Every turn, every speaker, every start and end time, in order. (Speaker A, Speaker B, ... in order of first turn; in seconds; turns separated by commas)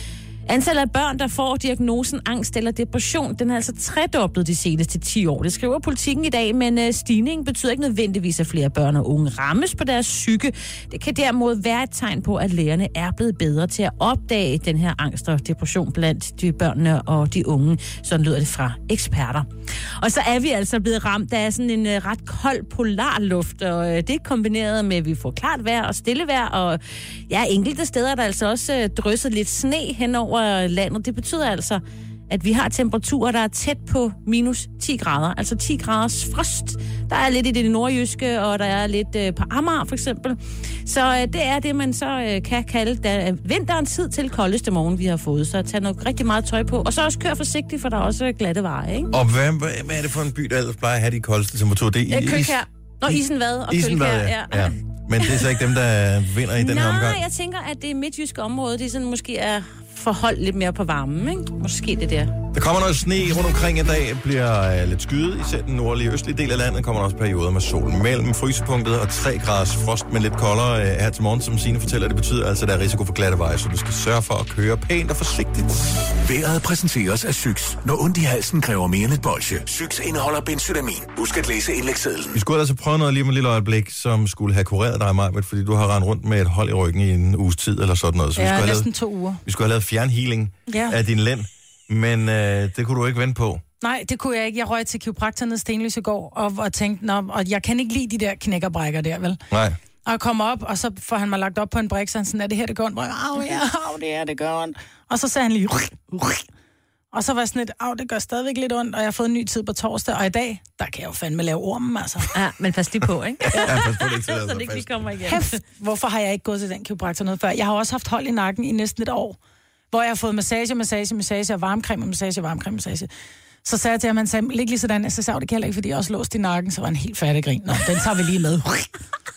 Speaker A: 0.5-49.1, Speaker B: 49.1-57.2, Speaker A: 52.1-55.5, Speaker A: 56.5-62.4, Speaker B: 62.5-76.0, Speaker C: 76.2-82.4, Speaker B: 82.3-88.9, Speaker D: 88.3-89.4, Speaker B: 89.4-93.6, Speaker D: 90.7-91.0, Speaker D: 93.8-99.4, Speaker B: 99.5-99.8, Speaker D: 100.0-106.4, Speaker D: 107.1-112.3, Speaker A: 112.3-115.6, Speaker B: 113.5-115.0, Speaker D: 115.2-119.4, Speaker D: 119.9-123.1, Speaker D: 123.6-128.9